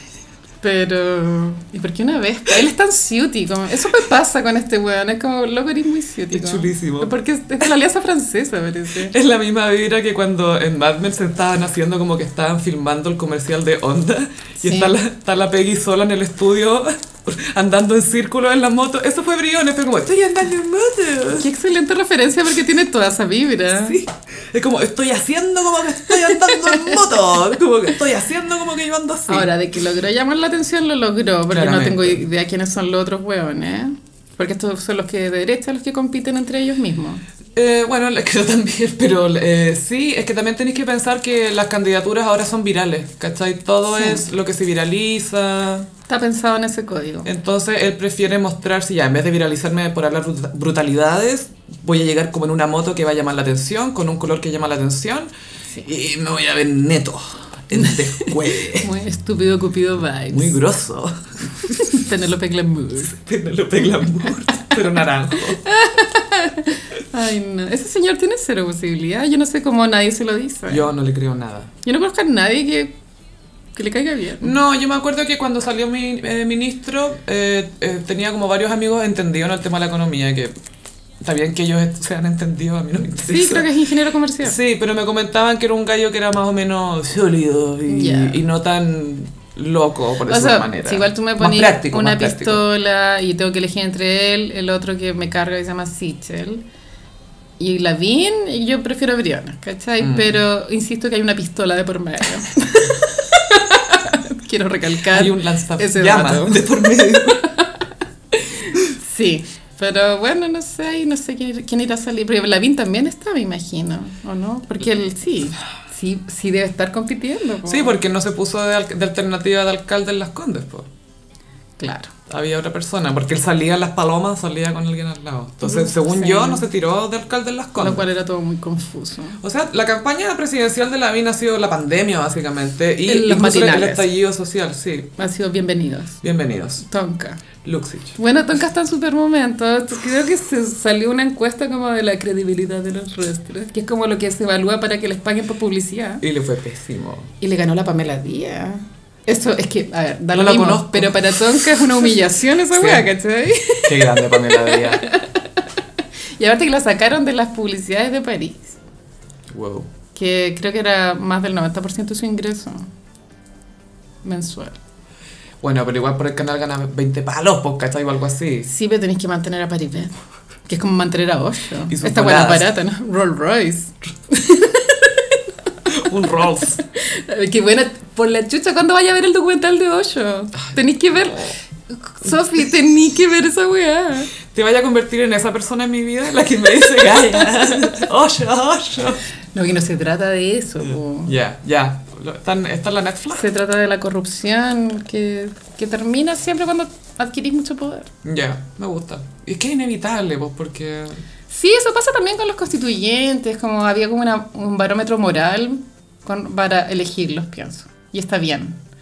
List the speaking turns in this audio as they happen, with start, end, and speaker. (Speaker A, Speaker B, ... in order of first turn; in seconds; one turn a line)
Speaker A: 0.6-9.2
Speaker B: 6.3-7.2
Speaker B: 9.1-21.5
Speaker A: 14.6-14.9
Speaker A: 21.4-24.0
Speaker B: 23.8-29.5
Speaker A: 26.5-26.9
Speaker A: 29.3-37.2
Speaker B: 31.5-32.2
Speaker B: 37.6-45.9
Speaker A: 43.9-44.2
Speaker A: 46.1-47.3
Speaker B: 47.2-55.3
Speaker B: 55.8-58.9
Speaker A: 57.8-60.6
Speaker B: 60.3-61.9
Speaker A: 61.7-63.1
Speaker B: 63.0-65.6
Speaker A: 65.6-70.9
Speaker B: 70.7-71.7
Speaker A: 71.8-72.9
Speaker A: 73.8-74.5
Speaker B: 74.4-80.5
Speaker B: 81.2-83.7
Speaker A: 83.2-84.6
Speaker B: 84.4-92.6
Speaker A: 87.9-88.4
Speaker A: 90.3-96.6
Speaker A: 97.6-107.7
Speaker B: 100.0-100.4
Speaker B: 105.1-107.4
Speaker A: 108.4-118.0
Speaker B: 117.7-120.9
Speaker A: 121.8-122.1
Speaker B: 122.3-128.0
Speaker A: 125.6-126.7
Speaker A: 127.8-129.4
Speaker B: 129.4-135.1
Speaker A: 133.1-134.1
Speaker A: 135.2-136.2
Speaker B: 136.2-136.8
Speaker A: 136.8-137.4
Speaker B: 137.6-138.2
Speaker A: 138.2-146.2
Speaker B: 146.2-147.3
Speaker A: 147.4-155.6
Speaker B: 150.3-152.1
Speaker B: 152.7-153.1
Speaker B: 153.8-155.1
Speaker A: 156.4-158.8
Speaker B: 159.5-159.9
Speaker A: 160.1-162.9
Speaker A: 164.2-164.8
Speaker B: 165.6-168.7
Speaker A: 168.7-170.1
Speaker A: 170.7-175.9
Speaker B: 171.9-172.7
Speaker B: 175.9-176.8
Speaker A: 176.8-184.3
Speaker B: 184.5-189.2
Speaker A: 189.6-191.3
Speaker B: 190.8-193.4
Speaker A: 193.3-198.1
Speaker B: 198.2-201.2
Speaker A: 201.5-208.8